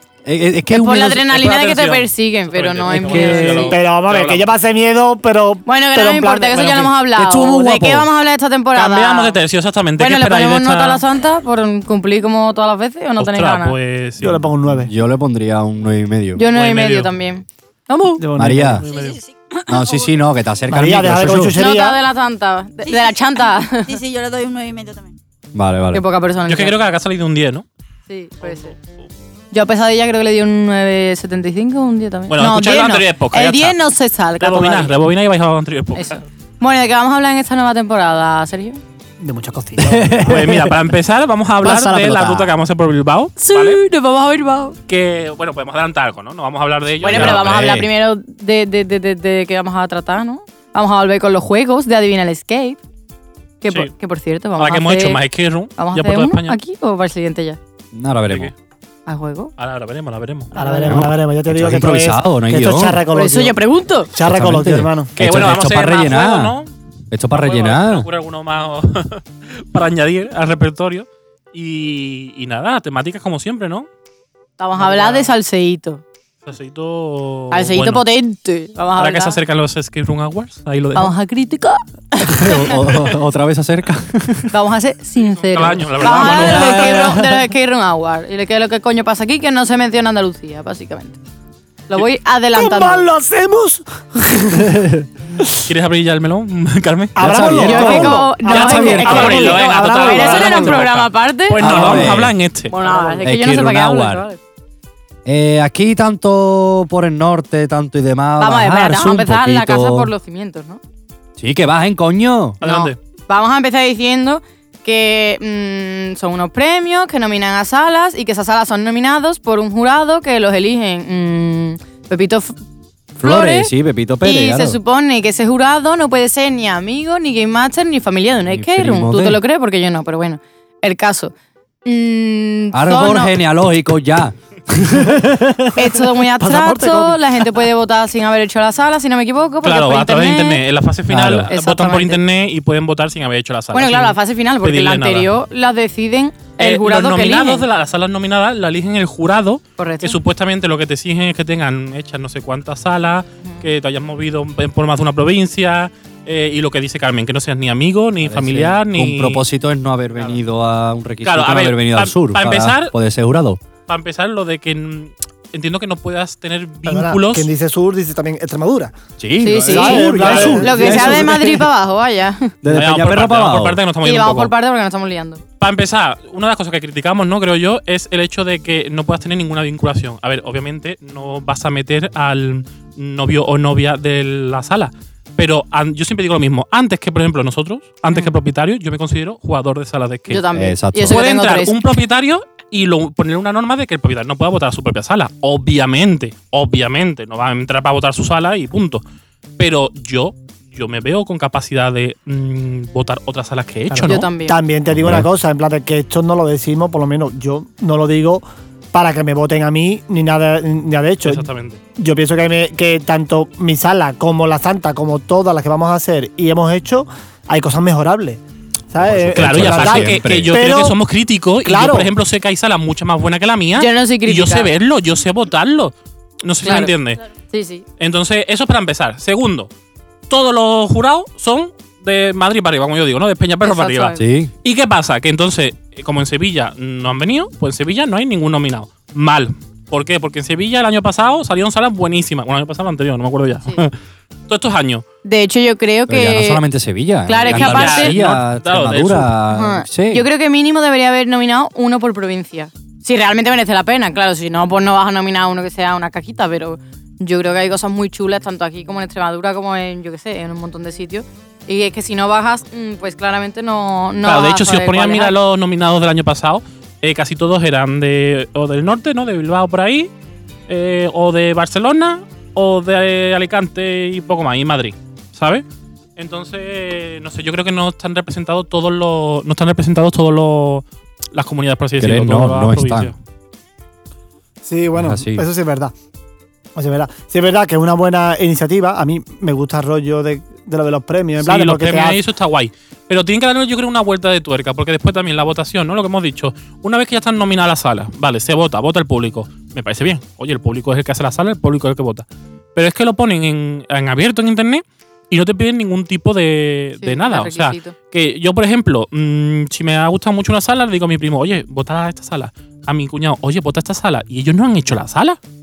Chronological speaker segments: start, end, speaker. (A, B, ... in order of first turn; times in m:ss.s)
0:00.2-0:01.4 A
0:00.7-0:03.7 B
0:01.3-0:04.4 C
0:02.9-0:03.7 A
0:03.7-0:06.9 D
0:05.6-0:09.4 B
0:07.2-0:08.1 A
0:08.7-0:11.0 C
0:10.0-0:13.7 B
0:13.2-0:14.5 C
0:14.2-0:14.9 D
0:14.7-0:16.4 A
0:16.4-0:18.2 B
0:16.5-0:17.1 C
0:18.2-0:18.8 D
0:18.4-0:18.8 A
0:18.8-0:19.2 C
0:18.8-0:20.2 E
0:19.7-0:21.6 A
0:20.7-0:22.0 D
0:21.5-0:24.0 B
0:22.8-0:25.1 E
0:25.5-0:26.0 A
0:25.9-0:26.8 B
0:26.5-0:27.6 C
0:28.1-0:28.7 B
0:28.4-0:28.8 C
0:29.5-0:34.9 B
0:32.3-0:33.8 C
0:34.4-0:36.2 C
0:36.0-0:38.8 B
0:39.2-0:40.5 D
0:39.8-0:40.8 A
0:40.2-0:43.8 C
0:41.6-0:42.5 A
0:43.4-0:44.8 B
0:44.9-0:47.5 C
0:47.0-0:47.9 A
0:47.0-0:52.8 B
0:53.6-0:55.2 B
0:54.6-0:56.6 C
0:55.8-0:57.6 B
0:57.9-0:58.5 A
0:59.0-0:59.5 B
0:59.6-1:00.5 C
1:00.5-1:01.0 B
1:00.5-1:03.6 D
1:00.8-1:03.0 A
1:03.1-1:04.1 B
1:04.1-1:05.1 D
1:04.2-1:06.6 A
1:05.2-1:06.7 C
1:07.1-1:08.1 A
1:07.3-1:13.9 C
1:14.6-1:16.0 B
1:14.8-1:15.3 C
1:16.4-1:18.0 C
1:17.5-1:19.4 B
1:19.0-1:21.1 C
1:20.9-1:22.8 B
1:22.2-1:24.5 A
1:24.5-1:31.2 B
1:25.2-1:27.1 C
1:26.0-1:27.4 A
1:31.9-1:33.1 B
1:32.5-1:34.9 D
1:34.7-1:35.0 A
1:35.6-1:37.5 C
1:37.1-1:40.8 D
1:37.2-1:39.5 A
1:37.5-1:41.8 B
1:38.5-1:42.7 C
1:41.6-1:42.4 A
1:41.7-1:42.1 D
1:42.7-1:44.4 B
1:42.8-1:43.2 D
1:43.2-1:44.2 A
1:45.2-1:50.1 A
1:48.4-1:50.8 B
1:51.4-1:52.6 A
1:52.6-1:53.0 C
1:52.6-2:02.6 B
2:03.2-2:04.8 A
2:03.2-2:03.7 B
2:04.2-2:11.3 B
2:08.5-2:09.4 A
2:11.8-2:13.4 B
2:12.7-2:15.7 A
2:15.8-2:20.6 B
2:16.4-2:17.2 D
2:19.6-2:25.3 C
2:21.1-2:21.5 A
2:21.5-2:22.2 B
2:23.7-2:27.6 B
2:26.6-2:39.4 C
2:29.8-2:30.2 B
2:38.2-2:43.6 A
2:41.2-2:42.9 C
2:43.9-2:47.5 C
2:46.8-2:49.0 D
2:49.2-2:51.7 A
2:49.4-2:52.5 B
2:49.7-2:51.4 D
2:52.6-2:53.8 A
2:52.7-2:54.5 C
2:54.0-2:55.4 B
2:55.6-3:10.4 C
3:10.3-3:11.8 B
3:10.5-3:11.2 A
3:11.1-3:19.0 C
3:19.6-3:24.3 C
3:23.9-3:31.4 D
3:24.0-3:24.6 B
3:24.9-3:25.3 A
3:31.2-3:31.8 C
3:32.0-3:38.4 D
3:38.9-3:41.0 D
3:39.0-3:40.6 A
3:39.3-3:47.2 C
3:41.6-3:42.1 D
3:43.8-3:44.7 B
3:46.6-3:47.8 B
3:48.0-3:49.7 C
3:50.3-4:03.9 C
3:53.6-3:54.2 B
3:54.2-3:54.5 A
4:04.5-4:05.0 C
4:05.2-4:06.6 B
4:06.1-4:10.2 A
4:07.2-4:08.1 B
4:07.4-4:09.3 C
4:09.5-4:25.3 B
4:24.2-4:30.1 C
4:30.7-4:35.6 C
4:36.2-4:43.1 C
4:42.0-4:43.1 A
4:44.6-4:45.9 D
4:45.0-4:45.4 A
4:46.8-4:52.2 D
4:51.4-5:15.4 C
5:07.0-5:07.9 B